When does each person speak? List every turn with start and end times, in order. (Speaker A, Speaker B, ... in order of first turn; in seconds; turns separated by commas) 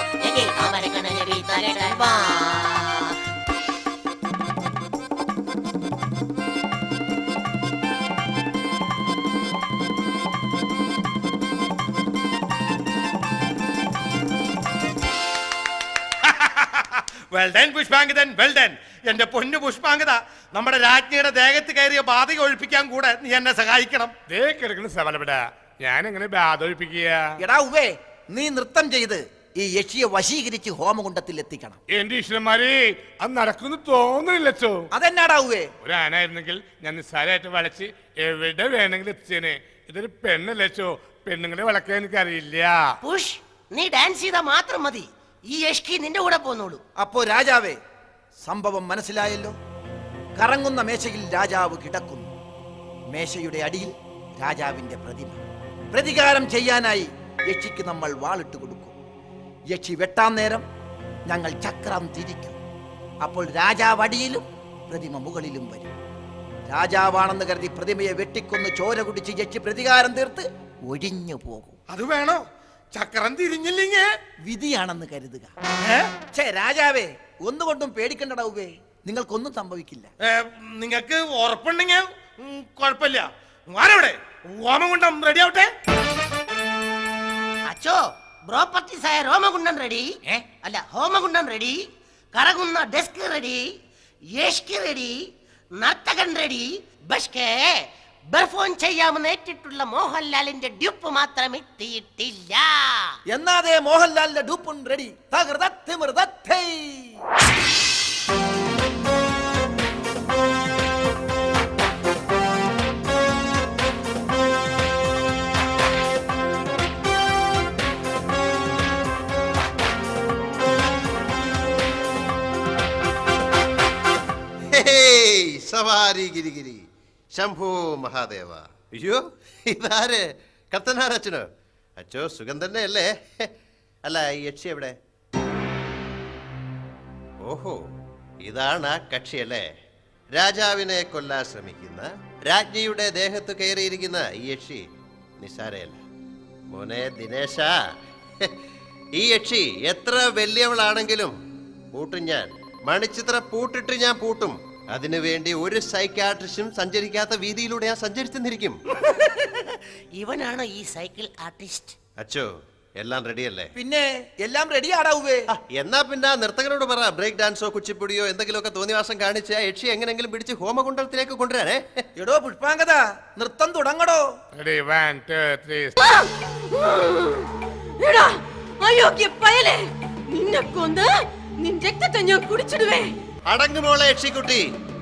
Speaker A: 0.2-2.9, Speaker B: 16.2-24.1, Speaker C: 24.3-27.2, Speaker D: 27.4-31.8, Speaker C: 31.9-34.9, Speaker D: 34.9-35.7, Speaker C: 35.8-42.8, Speaker E: 43.0-46.8, Speaker D: 47.0-47.8, Speaker D: 48.5-49.5, Speaker D: 50.4-52.3, Speaker D: 53.1-58.9, Speaker D: 59.7-60.6, Speaker D: 61.3-62.6, Speaker D: 63.2-65.9, Speaker D: 66.7-71.8, Speaker B: 71.9-72.4, Speaker B: 72.9-74.1, Speaker D: 74.5-75.5, Speaker B: 75.8-76.1, Speaker D: 76.3-80.1, Speaker B: 80.2-85.7, Speaker E: 87.7-91.8, Speaker E: 92.3-93.6, Speaker E: 94.3-95.2, Speaker E: 95.8-97.8, Speaker E: 98.3-103.1, Speaker D: 103.3-107.2, Speaker F: 124.8-126.8, Speaker F: 127.3-130.2, Speaker F: 130.7-131.4, Speaker F: 132.0-133.5, Speaker F: 134.0-134.9, Speaker F: 137.4-137.7, Speaker F: 138.4-139.6, Speaker F: 140.3-144.8, Speaker F: 145.4-146.0, Speaker F: 146.7-147.7, Speaker F: 149.2-151.3, Speaker F: 151.9-158.8, Speaker E: 159.1-161.9, Speaker F: 162.2-162.5, Speaker F: 163.0-163.7, Speaker D: 163.7-165.4, Speaker F: 165.6-172.0, Speaker D: 172.2-174.2, Speaker C: 174.5-175.9, Speaker G: 176.1-181.1, Speaker G: 181.6-183.1, Speaker F: 183.5-184.6